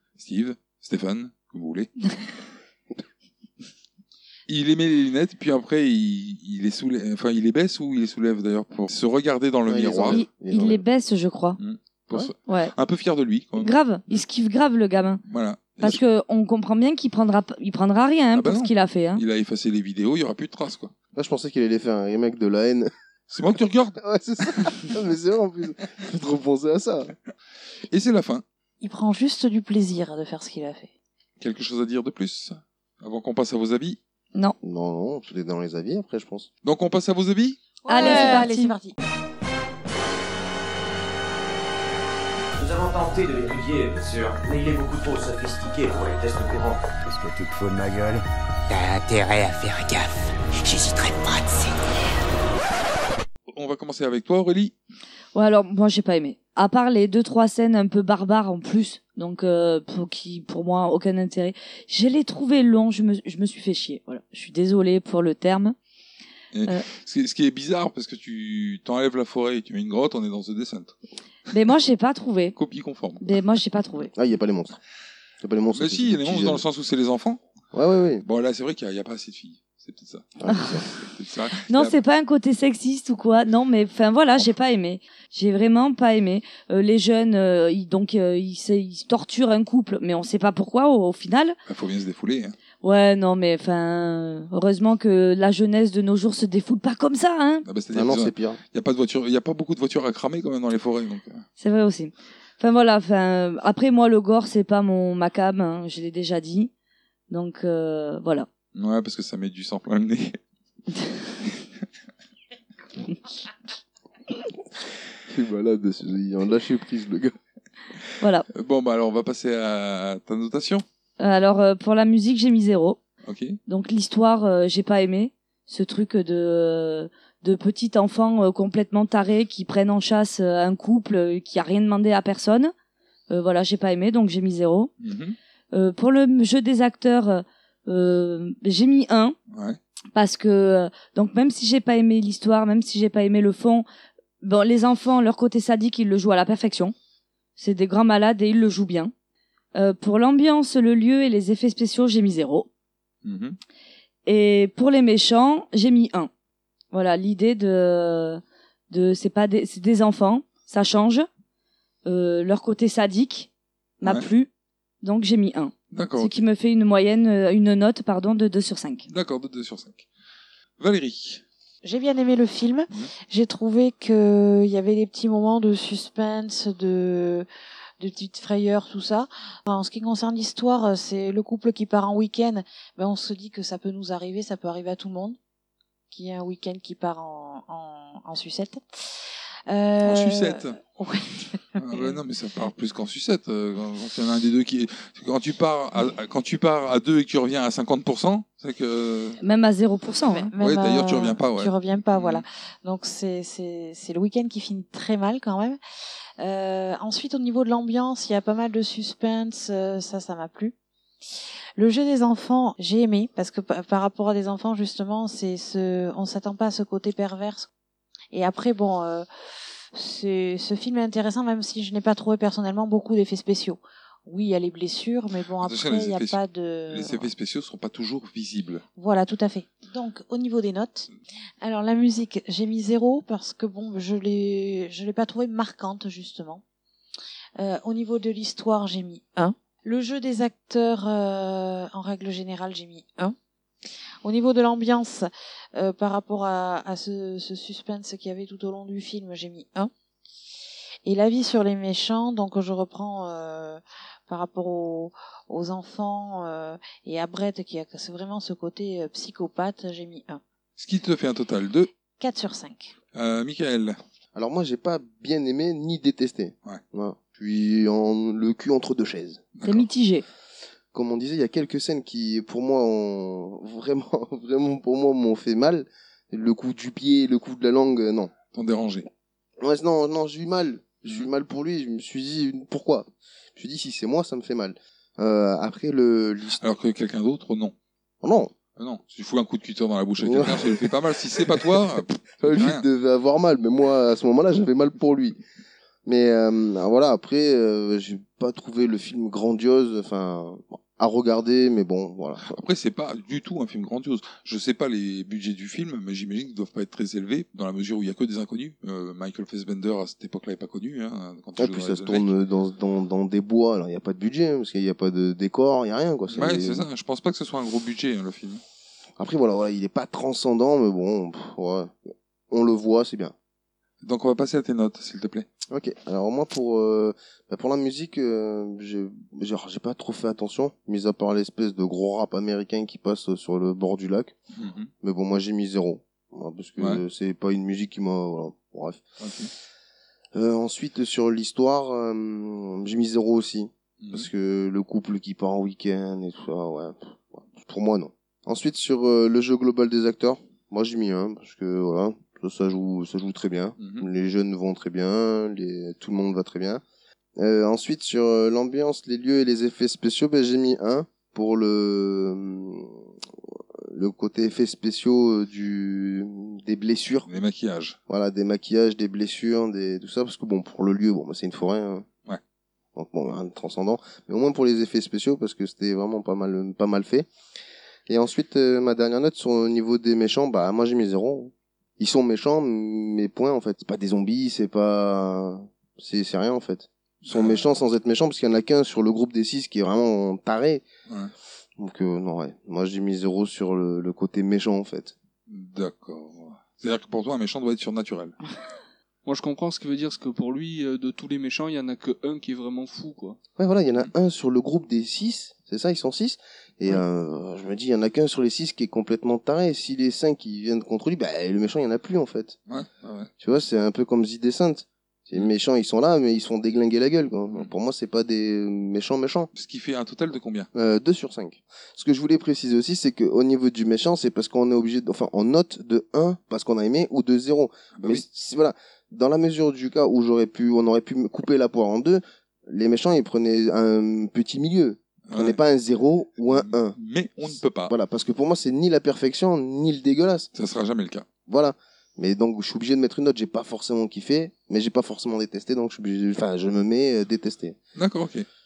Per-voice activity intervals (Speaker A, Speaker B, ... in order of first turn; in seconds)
Speaker A: 0.2-1.9, 4.5-10.2, 11.6-14.2, 15.3-16.0, 18.4-20.9, 23.3-24.0, 27.9-28.4, 31.4-34.0, 36.6-37.6, 53.5-54.7, 66.5-70.9, 72.5-73.2, 75.7-77.4, 78.2-82.0, 91.7-92.5, 97.6-101.4, 108.7-110.4, 118.5-120.8, 123.2-123.6, 135.0-135.3, 139.5-139.8, 153.2-153.6, 165.9-166.4, 169.1-170.0, 170.8-171.4, 190.0-190.8, 191.8-199.4, 200.6-202.4, 225.6-226.4, 226.9-228.8, 260.8-261.9, 263.1-264.0, 269.6-269.9, 278.5-279.1, 286.6-287.7, 288.8-292.8, 302.4-312.3, 316.3-318.6, 324.0-325.5, 334.5-334.9, 339.2-339.5, 344.0-344.3, 353.8-354.1, 367.3-368.0, 387.2-387.6, 395.5-398.4, 412.7-413.3, 419.5-420.7, 427.9-428.2, 435.3-435.6, 436.5-437.9, 440.5-441.3, 447.9-448.4
Speaker B: 9.7-10.8, 21.1-22.9, 24.0-27.1, 34.6-36.5, 74.1-74.8, 75.4-76.6, 77.7-78.2, 80.4-80.9, 97.9-98.6, 115.3-117.3, 264.3-269.4, 270.9-278.3, 279.6-286.6, 288.2-288.5, 290.2-295.4, 296.1-302.6, 311.6-316.9, 319.2-321.9, 322.5-323.3, 325.7-334.3, 335.0-339.0, 340.3-356.8, 357.4-363.1, 363.8-367.3, 368.1-372.1, 372.9-377.3, 378.1-390.8, 391.8-395.1, 403.6-412.6, 413.4-419.5, 420.7-440.5, 441.5-447.8
Speaker C: 10.0-11.6, 12.5-12.7, 13.6-15.2, 15.8-19.2, 37.9-38.7, 55.3-65.8, 71.5-72.5, 73.2-74.1, 81.7-91.5, 92.8-97.6, 101.6-106.7, 107.3-108.5, 118.2-118.5, 121.2-123.0, 123.7-132.7, 133.3-134.9, 135.7-139.3, 140.1-143.8, 144.4-146.9, 147.6-149.1, 149.7-152.7, 154.2-156.3, 156.9-161.3, 162.1-163.5, 164.0-164.5, 165.0-169.1, 199.4-200.5, 269.6-270.2
Speaker D: 28.8-30.9, 37.8-39.0, 171.8-177.5, 178.0-185.4, 186.1-192.2, 200.2-205.8, 206.4-210.7, 211.8-217.7, 218.3-219.3, 219.9-227.3, 229.0-231.1, 231.6-236.6, 237.6-243.3, 244.2-249.9, 251.0-260.4, 262.2-262.9
Speaker E: 42.5-46.8
Speaker F: 47.0-51.9
Speaker G: 399.2-403.4